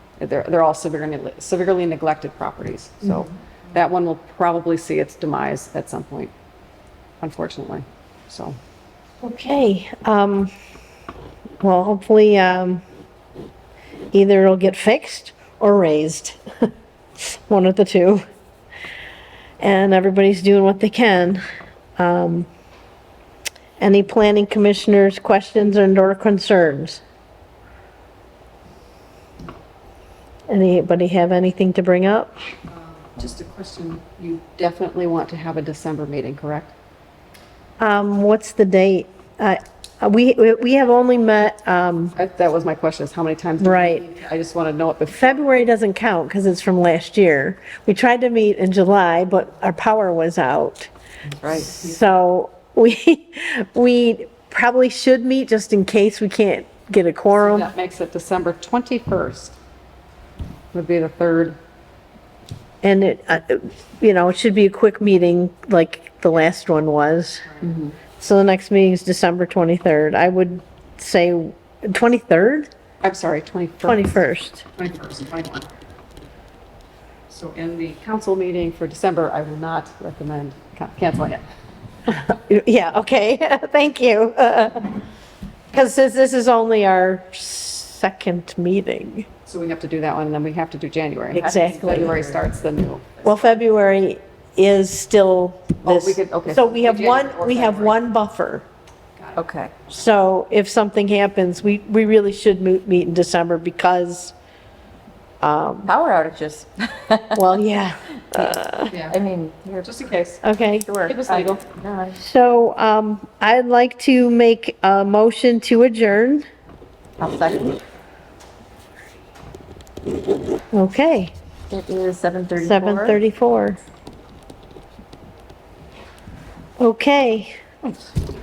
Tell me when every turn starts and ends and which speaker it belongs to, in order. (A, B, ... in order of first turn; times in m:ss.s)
0:00.2-0:06.3 A
0:07.2-0:08.6 A
0:09.2-0:10.5 B
0:11.6-0:12.8 B
0:14.1-0:16.4 B
0:17.2-0:18.2 B
0:19.6-0:21.4 B
0:22.0-0:22.5 B
0:23.8-0:27.0 B
0:30.5-0:32.3 B
0:32.7-0:36.8 A
0:37.8-0:42.1 B
0:42.2-0:45.7 A
0:43.6-0:44.0 B
0:45.1-0:50.9 B
0:51.4-0:51.9 A
0:51.5-0:57.7 B
0:57.4-0:59.6 A
1:00.7-1:01.6 A
1:02.8-1:07.5 B
1:07.5-1:07.9 A
1:08.2-1:12.7 B
1:13.0-1:14.2 A
1:13.8-1:14.6 B
1:14.8-1:15.7 A
1:17.3-1:21.4 A
1:22.3-1:25.0 B
1:25.7-1:29.3 B
1:29.4-1:33.6 A
1:31.3-1:32.4 C
1:31.3-1:32.1 B
1:33.2-1:38.7 B
1:35.8-1:38.0 A
1:39.2-1:39.4 A
1:39.4-1:39.7 C
1:39.9-1:44.4 B
1:45.4-1:45.9 B
1:45.8-1:47.5 C
1:47.4-1:48.9 B
1:48.3-1:49.9 C
1:48.9-1:49.2 A
1:49.8-1:50.4 A
1:50.4-1:50.9 B
1:50.8-1:52.2 C
1:51.1-1:51.6 A
1:52.2-1:56.4 B
1:57.2-1:57.8 C
2:00.7-2:01.3 B
2:01.7-2:03.2 C
2:02.6-2:03.8 B
2:06.8-2:07.6 B